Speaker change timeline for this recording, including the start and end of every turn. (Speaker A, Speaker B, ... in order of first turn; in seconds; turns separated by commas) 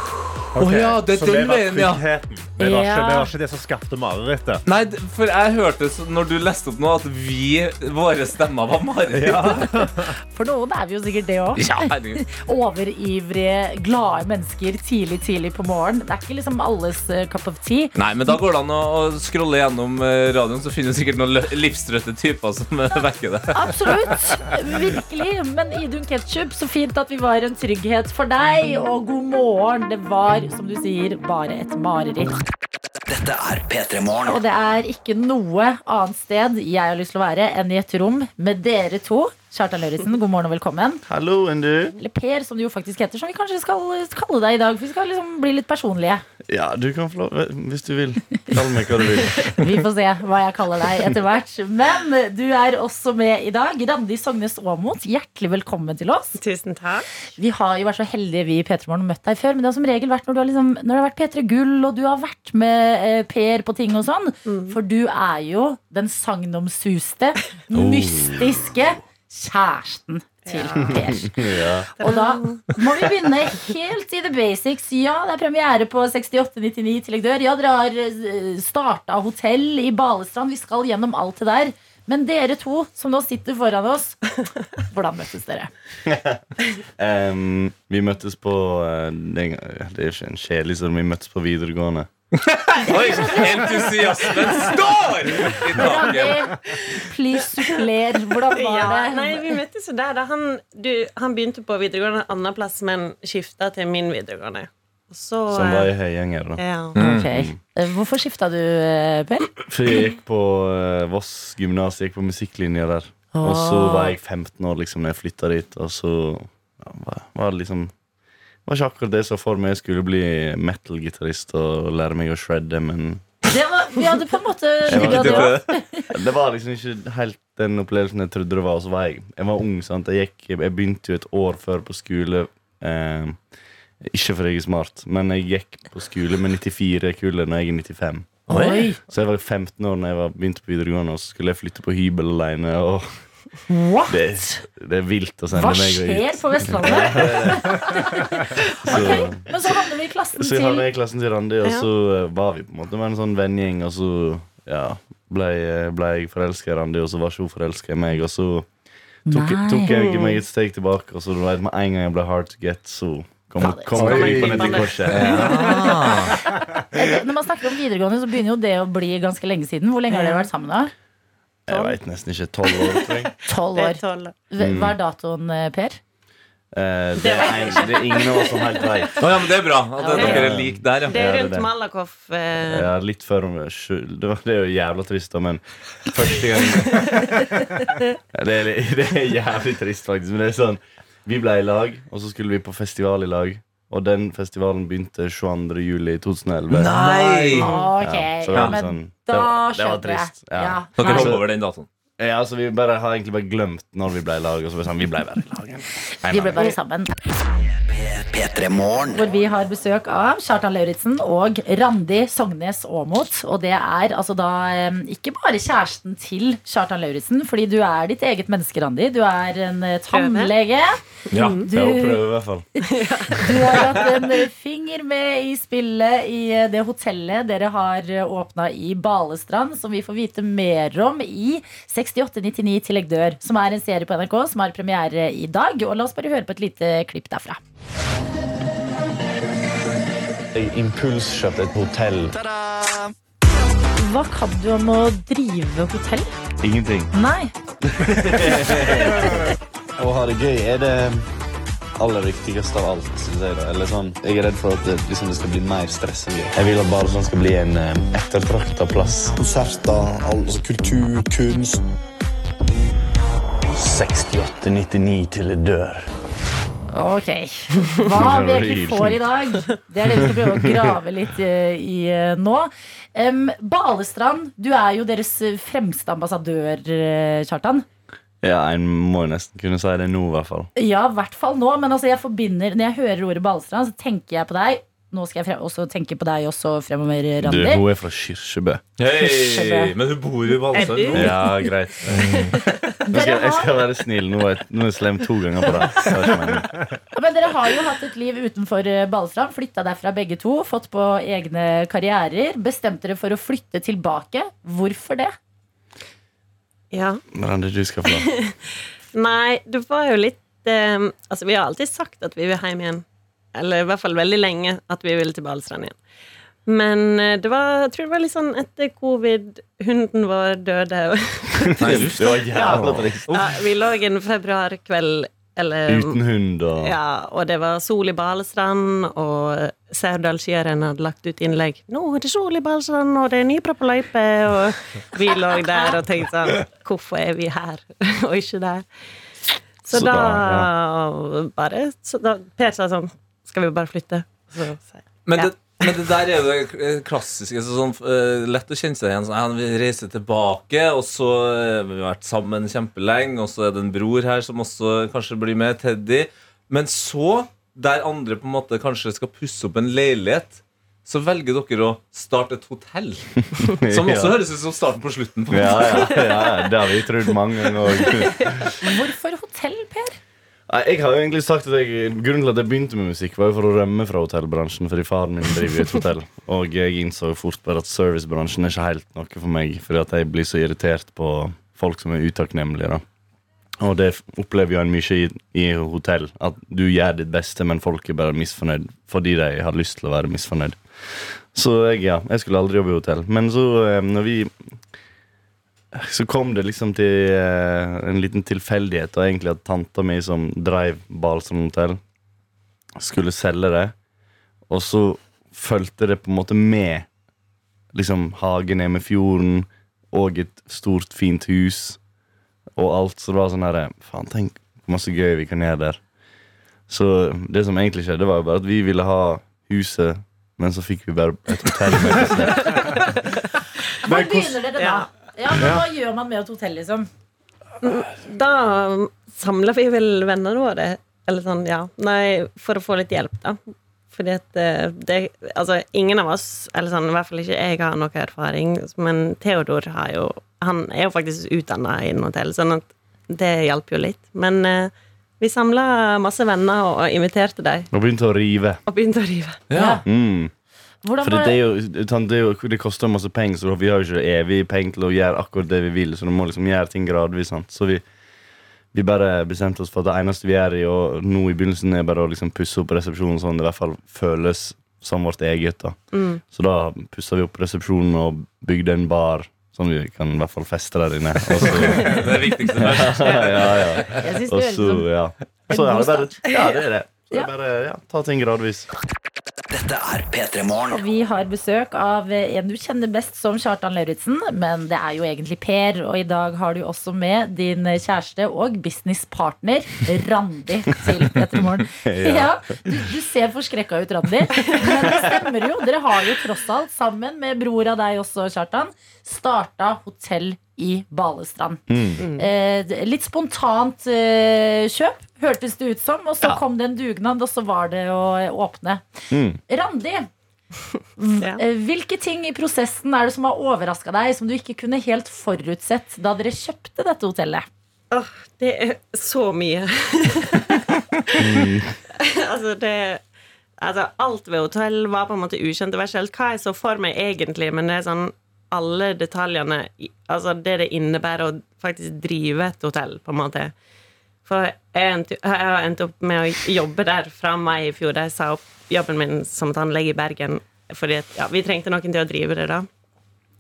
Speaker A: 0.5-4.6, Speaker B: 0.6-2.0, Speaker C: 2.6-3.3, Speaker B: 4.7-9.8, Speaker A: 9.1-10.1, Speaker C: 10.3-18.4, Speaker B: 11.6-12.2, Speaker B: 18.0-23.7, Speaker C: 23.5-32.4, Speaker D: 33.1-34.4, Speaker C: 34.2-41.0, Speaker E: 41.1-42.0, Speaker C: 42.0-46.2, Speaker E: 46.5-49.6, Speaker C: 49.5-56.4, Speaker F: 56.4-57.1, Speaker C: 57.4-71.3, Speaker F: 64.5-64.8, Speaker E: 67.7-68.7, Speaker F: 70.5-71.0, Speaker E: 70.8-71.9, Speaker F: 72.0-72.6, Speaker C: 72.0-84.2, Speaker C: 84.9-85.7, Speaker E: 86.1-86.4, Speaker E: 87.0-92.1, Speaker B: 92.4-96.5, Speaker C: 92.9-93.4, Speaker C: 95.8-99.6, Speaker F: 98.5-105.9, Speaker E: 105.5-107.6, Speaker F: 106.6-107.0, Speaker C: 107.0-109.5, Speaker E: 109.6-117.9, Speaker C: 113.3-114.2, Speaker E: 118.7-123.3, Speaker C: 123.5-126.1, Speaker E: 124.9-133.4, Speaker B: 124.9-125.7, Speaker E: 134.0-143.4, Speaker C: 138.5-139.0, Speaker B: 138.5-138.8, Speaker C: 143.7-144.6, Speaker E: 144.1-148.2, Speaker C: 145.5-150.8, Speaker E: 148.8-158.7, Speaker E: 159.3-165.8, Speaker C: 159.3-159.9, Speaker F: 159.9-160.4, Speaker C: 163.6-164.8, Speaker A: 164.0-166.6, Speaker F: 164.1-164.9, Speaker B: 165.2-166.3, Speaker C: 166.9-170.9, Speaker E: 171.7-173.3, Speaker F: 171.7-171.9, Speaker F: 172.7-174.3, Speaker C: 173.5-176.0, Speaker E: 174.6-175.0, Speaker E: 176.7-179.3, Speaker F: 177.2-179.1, Speaker B: 179.2-181.2, Speaker C: 180.0-180.4, Speaker E: 180.1-181.7, Speaker F: 180.2-180.4, Speaker F: 181.1-182.9, Speaker E: 182.5-187.4, Speaker F: 186.9-187.2, Speaker E: 188.3-196.9, Speaker B: 196.7-197.8, Speaker A: 196.9-197.7, Speaker C: 197.6-201.4, Speaker E: 197.9-201.6, Speaker B: 201.0-201.9, Speaker E: 202.2-206.7, Speaker C: 206.3-207.1, Speaker D: 207.9-209.3, Speaker C: 209.1-221.0, Speaker F: 220.1-220.5, Speaker B: 221.3-221.6, Speaker F: 221.3-221.7, Speaker C: 221.6-222.3, Speaker E: 221.7-222.7, Speaker C: 222.8-237.6, Speaker F: 222.9-223.3, Speaker E: 240.5-242.4, Speaker C: 244.0-246.3, Speaker E: 246.6-247.1, Speaker C: 247.1-247.5, Speaker E: 247.9-251.3, Speaker E: 252.0-261.8, Speaker E: 263.7-266.1, Speaker C: 266.9-277.9, Speaker E: 268.1-269.3, Speaker E: 270.1-270.9, Speaker E: 278.4-280.7, Speaker C: 280.8-287.8, Speaker E: 287.4-288.8, Speaker B: 289.0-291.4, Speaker C: 289.2-289.9, Speaker F: 290.7-292.6, Speaker E: 291.1-292.4, Speaker C: 293.1-293.8, Speaker E: 293.1-296.8, Speaker C: 297.1-305.3, Speaker F: 306.9-307.2, Speaker E: 307.3-308.3, Speaker F: 308.1-308.4, Speaker F: 309.1-313.0, Speaker F: 313.6-316.0, Speaker F: 316.7-326.2, Speaker B: 321.8-323.3, Speaker E: 321.8-323.5, Speaker E: 325.9-326.9, Speaker F: 326.8-338.9, Speaker F: 339.9-346.0, Speaker E: 339.9-340.7, Speaker B: 345.3-363.3, Speaker E: 363.9-364.4, Speaker B: 363.9-366.2, Speaker E: 365.5-368.7, Speaker F: 366.1-366.7, Speaker F: 368.0-368.3, Speaker C: 368.8-370.2, Speaker E: 370.7-383.0, Speaker E: 383.8-394.6, Speaker E: 395.9-402.0, Speaker E: 403.0-403.9, Speaker E: 404.7-407.1, Speaker E: 407.9-412.0, Speaker E: 412.8-416.0, Speaker E: 416.9-423.0, Speaker F: 422.6-423.0, Speaker C: 424.0-427.1, Speaker A: 424.1-424.6, Speaker F: 424.8-425.1, Speaker A: 425.6-425.8, Speaker F: 427.8-433.6, Speaker F: 434.1-447.9, Speaker E: 447.9-448.8, Speaker F: 448.9-449.6, Speaker B: 449.7-450.0, Speaker C: 449.7-450.1, Speaker E: 450.1-450.5, Speaker C: 451.0-451.6, Speaker E: 451.2-458.0, Speaker E: 458.9-478.9, Speaker F: 466.1-466.4, Speaker B: 471.6-474.0, Speaker C: 474.2-475.1, Speaker C: 475.7-476.4, Speaker D: 479.7-481.0, Speaker C: 480.9-501.8, Speaker E: 492.0-493.0, Speaker F: 494.7-495.0, Speaker E: 501.9-502.2, Speaker F: 502.2-502.5, Speaker C: 502.4-509.1, Speaker E: 509.3-509.6, Speaker C: 509.7-510.3, Speaker C: 511.2-517.7, Speaker F: 518.1-521.0, Speaker E: 521.4-522.0, Speaker F: 522.2-523.2, Speaker F: 523.8-533.7, Speaker F: 534.5-542.9